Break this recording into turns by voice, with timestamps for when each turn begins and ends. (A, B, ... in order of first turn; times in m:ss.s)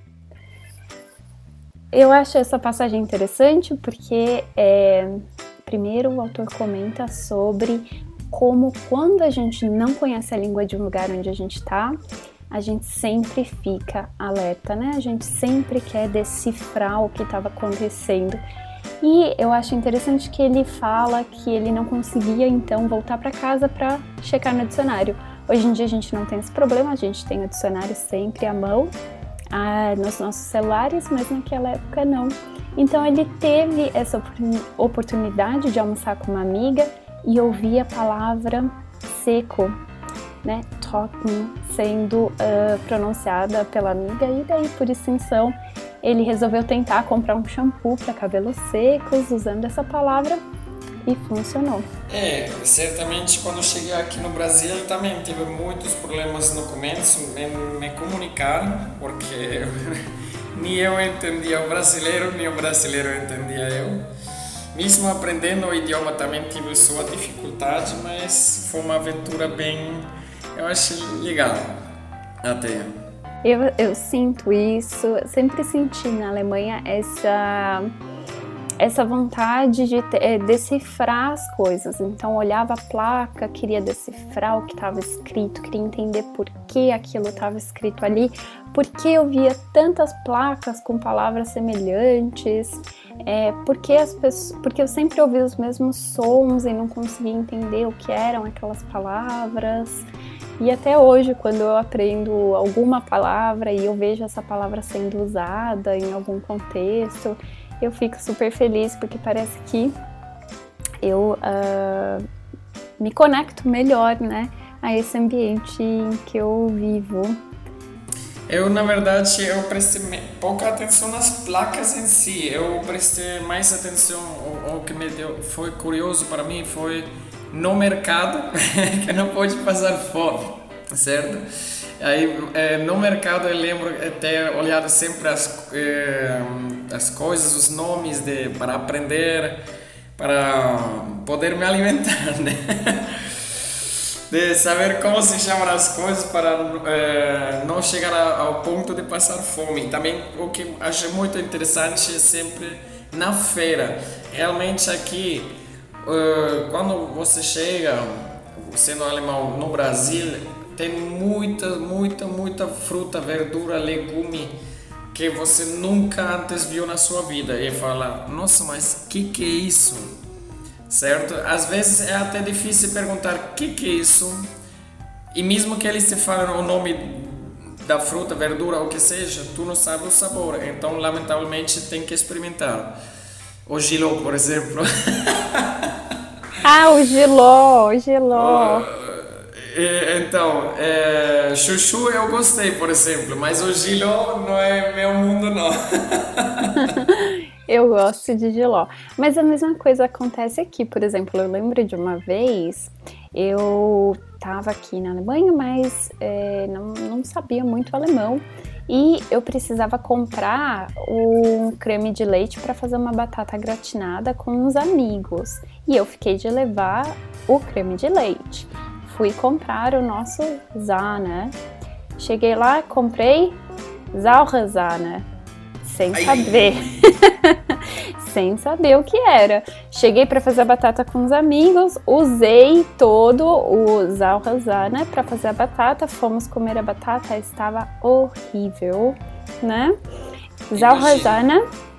0:01.9-0:12.0 A
0:12.5-0:18.4 A
0:19.0-0:28.9 A
0:29.5-0:39.8 A
0:40.4-0:50.4 A
0:51.0-0:51.9 A
0:52.1-1:04.1 B
1:04.7-1:11.8 B
1:12.4-1:13.0 B
1:13.4-1:17.9 A
1:18.8-1:40.0 A
1:40.6-1:50.0 A
1:51.0-1:52.2 A
1:53.0-1:57.4 A
1:58.5-2:19.6 B
2:20.2-2:23.6 B
2:24.3-2:44.6 B
2:45.1-2:50.2 B
2:50.9-2:54.5 B
2:55.3-3:03.0 B
3:03.7-3:05.9 B
3:06.6-3:08.9 A
3:08.3-3:17.0 B
3:16.8-3:41.6 A
3:42.2-3:43.6 A
3:44.1-3:45.3 A
3:45.8-4:00.0 A
3:46.1-3:47.0 B
4:00.7-4:01.6 A
4:00.8-4:01.4 B